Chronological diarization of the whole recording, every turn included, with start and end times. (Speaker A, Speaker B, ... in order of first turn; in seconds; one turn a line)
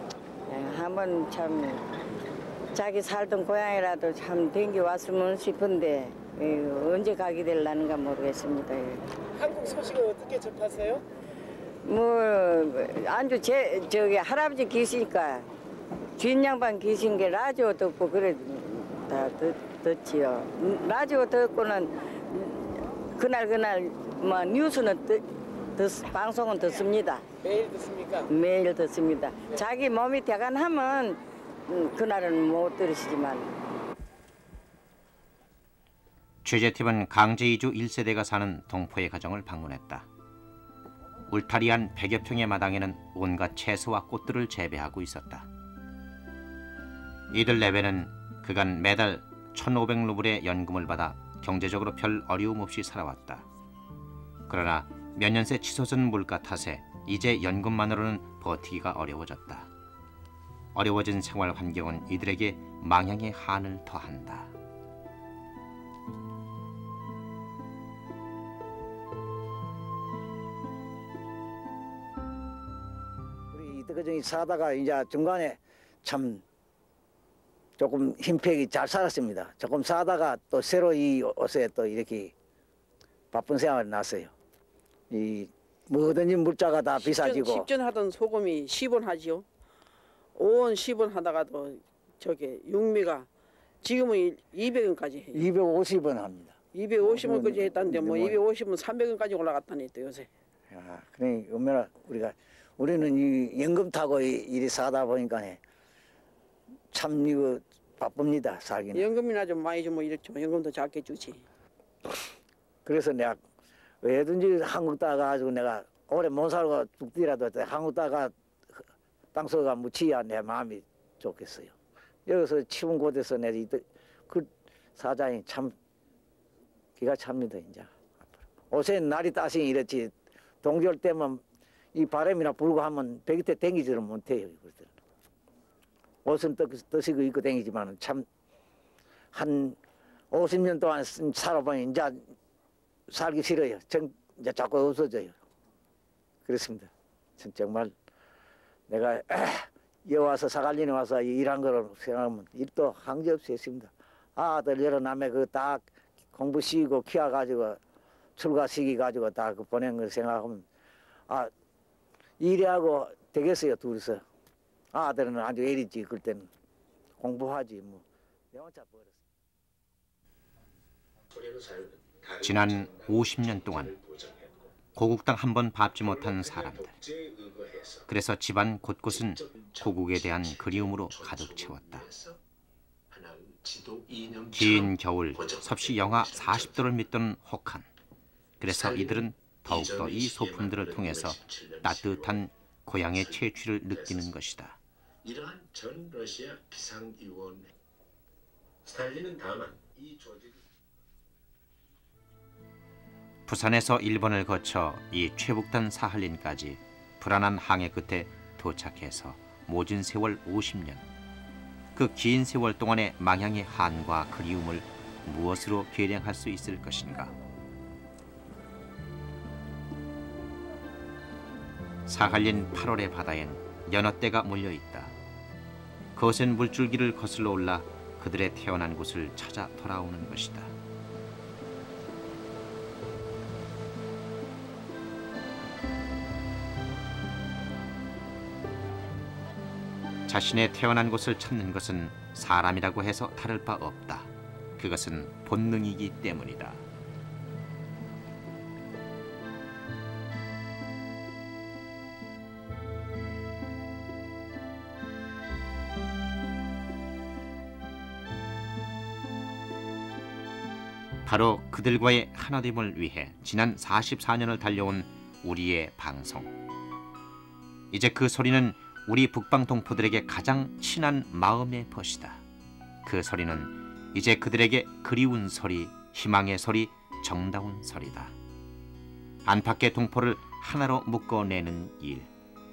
Speaker A: 0.5-1.8
Speaker A: 2.7-9.1
Speaker B: 9.4-11.0
Speaker A: 11.8-15.5
Speaker A: 16.2-25.2
Speaker A: 25.8-27.2
Speaker B: 27.5-28.2
Speaker A: 28.3-33.5
Speaker C: 36.4-40.1
Speaker C: 41.3-45.5
Speaker C: 47.3-53.5
Speaker C: 54.5-59.7
Speaker C: 60.7-64.5
Speaker D: 73.5-76.4
Speaker D: 77.8-82.3
Speaker D: 83.3-84.3
Speaker D: 85.1-87.7
Speaker E: 87.0-89.5
Speaker E: 90.4-93.3
Speaker E: 93.8-95.5
Speaker D: 95.3-98.4
Speaker E: 96.7-100.3
Speaker D: 100.7-105.6
Speaker D: 106.9-109.1
Speaker E: 108.9-111.5
Speaker D: 112.8-113.4
Speaker D: 114.0-121.7
Speaker D: 122.3-125.8
Speaker D: 127.0-127.9
Speaker D: 128.7-131.4
Speaker D: 131.9-135.0
Speaker D: 136.2-138.3
Speaker D: 139.3-139.8
Speaker D: 140.3-142.3
Speaker D: 143.1-145.4
Speaker D: 146.4-147.9
Speaker D: 148.9-157.8
Speaker D: 158.4-160.7
Speaker D: 162.4-164.2
Speaker D: 164.9-166.5
Speaker D: 167.2-169.2
Speaker F: 171.3-174.7
Speaker C: 172.4-173.9
Speaker C: 175.0-176.9
Speaker F: 176.0-178.1
Speaker C: 178.1-182.1
Speaker F: 179.1-182.4
Speaker F: 183.1-186.9
Speaker C: 184.5-187.9
Speaker C: 188.6-194.8
Speaker F: 188.6-192.5
Speaker F: 193.1-194.4
Speaker F: 195.2-197.7
Speaker F: 198.8-200.6
Speaker C: 203.5-211.1
Speaker C: 211.9-217.3
Speaker C: 222.1-225.1
Speaker C: 226.2-230.7
Speaker C: 240.3-246.8
Speaker C: 261.2-266.5
Speaker C: 267.9-272.4
Speaker C: 273.1-278.4
Speaker C: 279.4-282.3